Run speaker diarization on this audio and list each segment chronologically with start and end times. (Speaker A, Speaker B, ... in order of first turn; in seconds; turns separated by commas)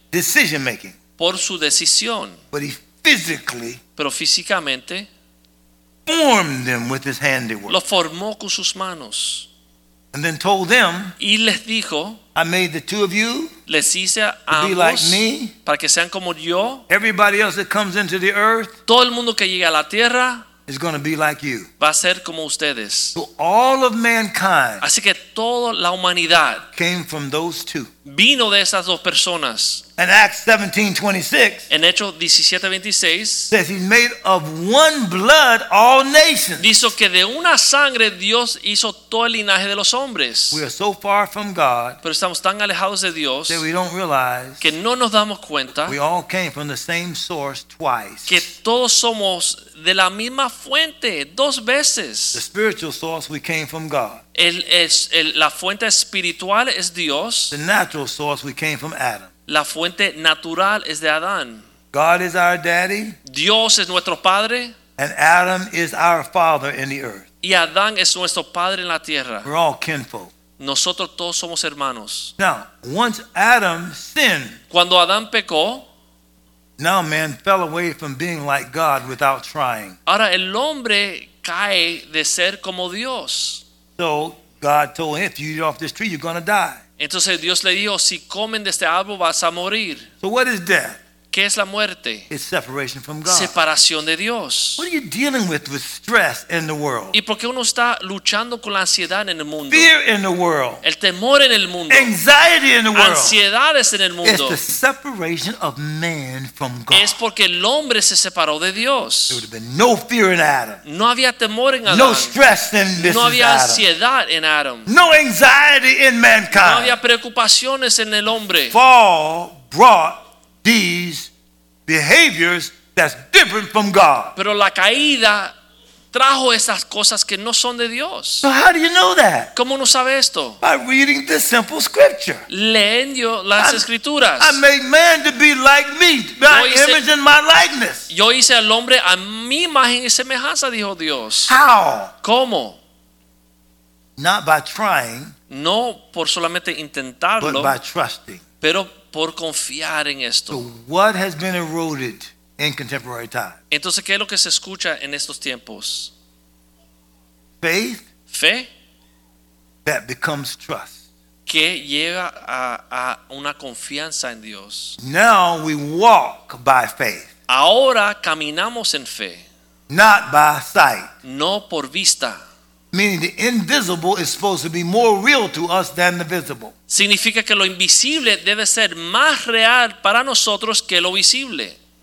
Speaker A: 0.1-0.9, Speaker B: 1.2-2.4, Speaker A: 2.5-3.8, Speaker B: 4.0-5.1, Speaker A: 6.0-7.8, Speaker B: 7.7-9.5, Speaker A: 10.1-11.1, Speaker B: 11.2-12.2, Speaker A: 12.3-13.5, Speaker B: 13.7-16.8, Speaker A: 14.5-15.5, Speaker A: 16.9-18.7, Speaker B: 18.9-20.4, Speaker A: 20.7-21.7, Speaker B: 21.8-23.1, Speaker A: 23.1-24.8, Speaker B: 24.8-26.6, Speaker A: 26.7-27.9, Speaker B: 28.0-29.8, Speaker A: 30.0-31.7, Speaker B: 31.7-33.5, Speaker A: 33.5-36.7, Speaker B: 36.6-40.6, Speaker A: 40.5-42.0, Speaker B: 42.0-43.6, Speaker A: 43.5-44.7, Speaker B: 44.6-46.0, Speaker A: 45.9-48.5, Speaker B: 48.3-52.4, Speaker A: 52.3-54.2, Speaker B: 54.3-57.5, Speaker A: 57.5-59.3, Speaker B: 59.5-61.6, Speaker A: 61.9-63.2, Speaker B: 63.2-64.7, Speaker A: 65.0-67.2, Speaker B: 67.4-69.5, Speaker A: 69.4-70.3, Speaker B: 70.6-72.3, Speaker A: 72.4-74.6, Speaker B: 74.7-75.9, Speaker A: 76.8-80.0, Speaker B: 80.0-83.6, Speaker A: 84.0-86.8, Speaker B: 87.0-90.1, Speaker A: 90.2-91.0, Speaker B: 91.3-92.3, Speaker A: 92.3-93.5, Speaker B: 93.2-94.9, Speaker A: 94.8-97.2, Speaker B: 97.1-99.9, Speaker A: 99.7-100.8, Speaker B: 100.8-102.1, Speaker A: 101.9-103.4, Speaker B: 102.9-104.6, Speaker A: 104.2-107.2, Speaker B: 106.9-109.4, Speaker A: 109.3-110.8, Speaker B: 110.8-112.4, Speaker A: 111.9-113.9, Speaker B: 113.0-114.9, Speaker A: 114.9-117.0, Speaker B: 116.5-118.8, Speaker A: 118.7-121.3, Speaker A: 121.9-124.3, Speaker B: 124.3-125.5, Speaker B: 126.1-128.5, Speaker A: 128.4-129.5, Speaker B: 129.5-130.6, Speaker A: 130.6-132.4, Speaker B: 132.5-134.6, Speaker A: 133.6-133.8, Speaker A: 134.4-138.1, Speaker B: 136.5-137.0, Speaker B: 138.1-141.6, Speaker A: 141.5-142.1, Speaker B: 142.2-142.8, Speaker A: 144.2-145.3, Speaker B: 145.5-147.8, Speaker A: 147.4-148.4, Speaker B: 148.6-150.6, Speaker A: 150.5-153.6, Speaker B: 153.7-156.1, Speaker A: 157.6-158.0, Speaker B: 158.3-158.7, Speaker A: 159.8-160.9, Speaker B: 161.4-165.0, Speaker A: 165.0-167.3, Speaker B: 167.5-169.4, Speaker A: 169.9-171.1, Speaker B: 171.2-172.4, Speaker A: 172.9-176.7, Speaker B: 176.9-181.8